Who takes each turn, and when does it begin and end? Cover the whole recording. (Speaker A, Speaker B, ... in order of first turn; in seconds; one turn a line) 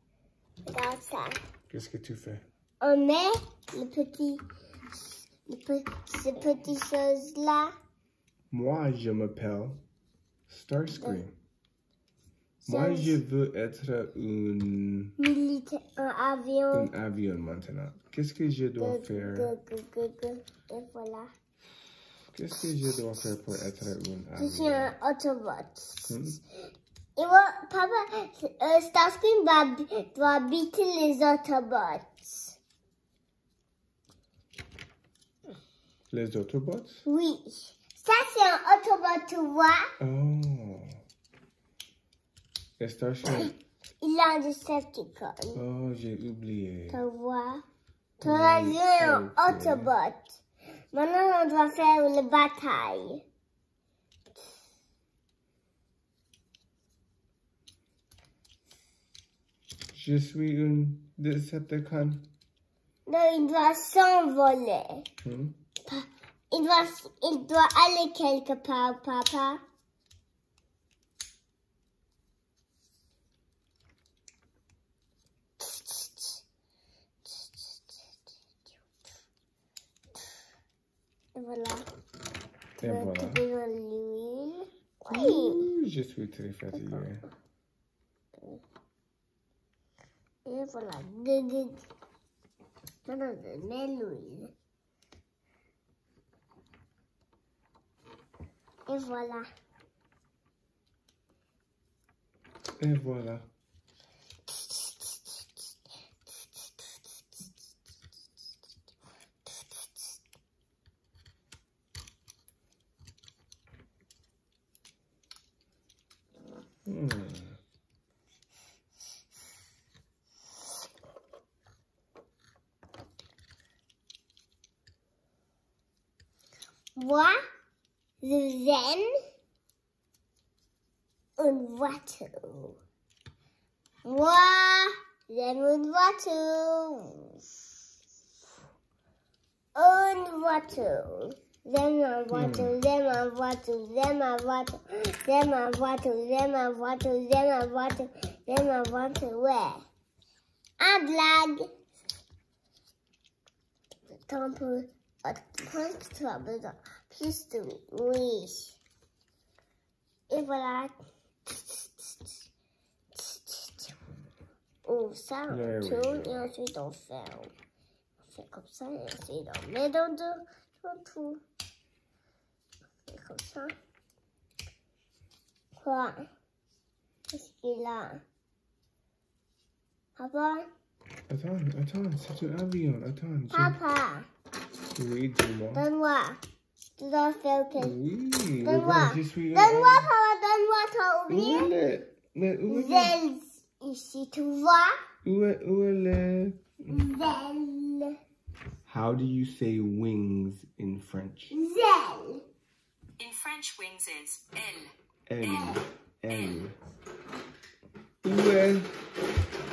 Speaker A: 0.7-1.4
Speaker B: 1.7-2.4
Speaker A: 2.8-4.4
Speaker A: 4.9-7.7
Speaker B: 8.5-9.8
Speaker B: 10.5-11.3
Speaker A: 12.7-13.2
Speaker B: 12.7-15.2
Speaker A: 15.2-16.9
Speaker B: 16.7-19.5
Speaker A: 18.8-21.3
Speaker B: 22.3-24.9
Speaker A: 24.4-26.2
Speaker B: 26.1-26.4
Speaker A: 27.2-32.6
Speaker B: 36.1-37.0
Speaker A: 37.1-39.9
Speaker B: 40.0-41.0
Speaker B: 42.8-43.5
Speaker A: 44.0-45.6
Speaker B: 45.5-47.0
Speaker A: 46.9-47.6
Speaker A: 48.2-50.4
Speaker B: 48.2-49.9
Speaker A: 50.9-53.2
Speaker B: 59.9-62.3
Speaker A: 63.1-65.1
Speaker B: 65.2-65.5
Speaker A: 65.8-69.6
Speaker A: 75.6-76.4
Speaker A: 77.2-78.2
Speaker A: 81.3-81.9
Speaker B: 82.8-83.5
Speaker A: 82.8-85.6
Speaker B: 85.1-87.3
Speaker A: 86.7-87.0
Speaker A: 90.5-91.8
Speaker A: 93.0-94.5
Speaker A: 98.9-99.5
Speaker B: 102.8-103.5
Speaker A: 104.5-105.4
Speaker B: 116.9-117.6
Speaker A: 127.0-127.4
Speaker A: 128.2-129.1
Speaker A: 131.4-132.8
Speaker A: 134.1-137.4
Speaker A: 139.8-149.8
Speaker B: 142.3-142.8
Speaker A: 150.8-151.7
Speaker A: 154.1-158.8
Speaker A: 160.3-160.9
Speaker A: 161.4-162.5
Speaker A: 163.1-164.0
Speaker A: 164.8-167.5
Speaker B: 165.5-166.5
Speaker A: 168.2-171.4
Speaker A: 173.1-173.7
Speaker A: 175.8-176.3
Speaker A: 177.3-178.2
Speaker A: 180.2-180.7
Speaker B: 181.3-183.8
Speaker A: 183.5-184.3
Speaker B: 184.9-185.9
Speaker A: 185.8-186.4
Speaker A: 187.0-188.0
Speaker B: 187.8-190.1
Speaker A: 188.6-191.7
Speaker B: 191.3-193.2
Speaker A: 192.7-195.0
Speaker B: 195.2-197.0
Speaker A: 196.9-198.2
Speaker B: 198.9-201.5
Speaker A: 201.5-202.4
Speaker C: 203.2-206.6
Speaker B: 205.3-206.8
Speaker B: 208.2-208.9